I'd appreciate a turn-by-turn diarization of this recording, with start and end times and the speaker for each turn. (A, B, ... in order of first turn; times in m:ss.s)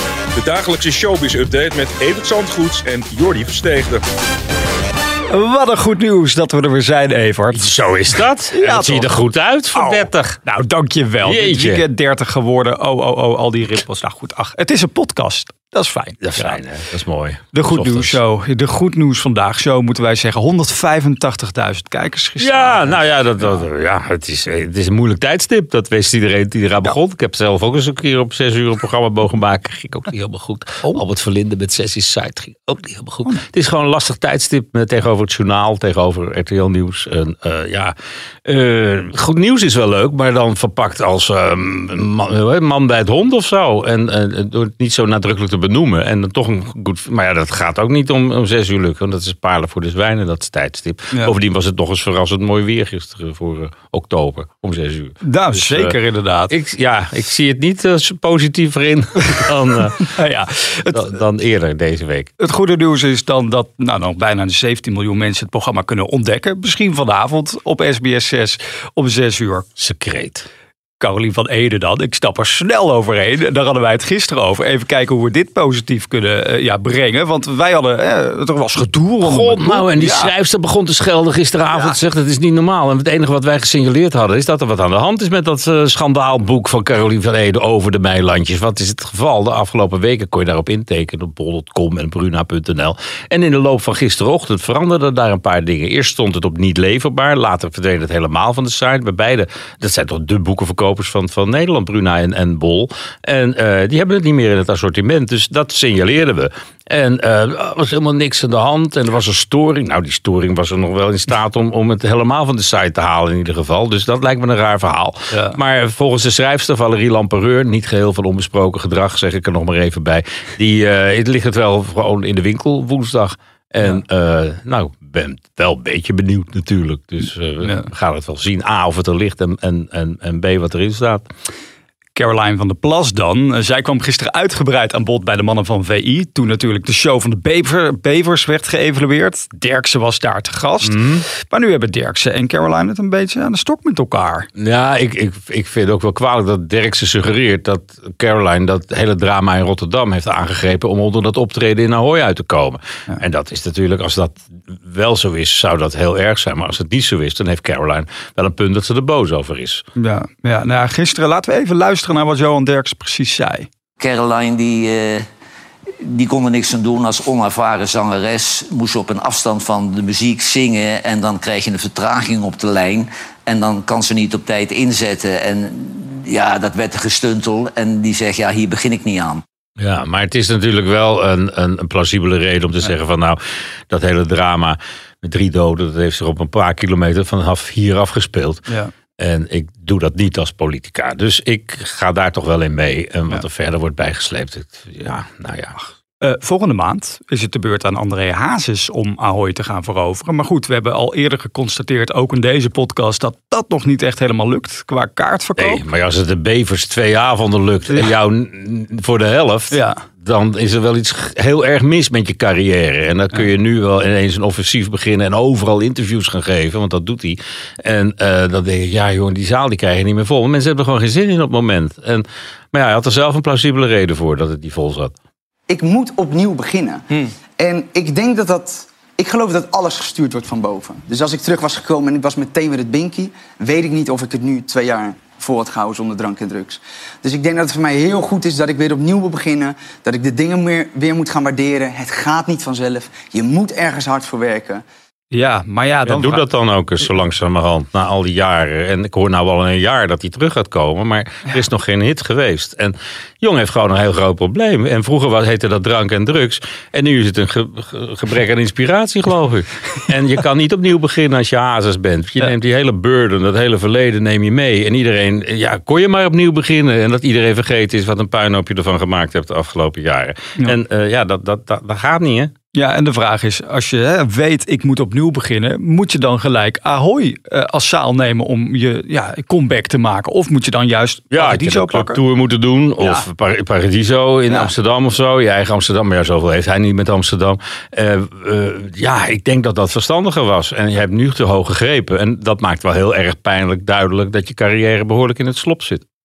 0:00.4-0:04.0 A
0:05.3-0:07.7 B
0:07.5-0:10.4 C
0:08.5-0:09.1 B
0:09.7-0:16.6 B
0:11.2-0:11.8 C
0:16.2-0:18.2 C
0:17.5-0:23.6 B
0:22.4-0:37.9 C
0:38.4-0:55.9 C
0:55.2-0:56.5 B
0:56.5-1:00.1 C
1:00.1-1:01.1 B
1:00.9-1:02.3 C
1:02.4-1:09.7 B
1:09.8-1:10.5 C
1:11.0-1:20.3 B
1:19.2-2:11.3 C
1:21.7-1:22.0 B
1:55.3-1:55.6 B
2:07.6-2:07.9 B
2:12.1-2:24.5 B
2:20.8-2:21.2 C
2:24.6-2:39.8 C
2:40.0-2:43.7 B
2:44.0-2:45.2 D
2:46.0-2:59.4 D
2:59.8-3:03.4 C
3:03.9-3:08.6 C
3:09.2-3:15.8 C
3:16.2-3:25.8 B
3:25.6-3:45.1 C
3:29.7-3:30.0 B
3:45.7-4:04.8 E
4:05.3-4:06.4 B
4:06.0-4:32.5 C
4:32.7-4:42.2 B
4:41.3-4:56.0 C
4:43.0-4:43.2 B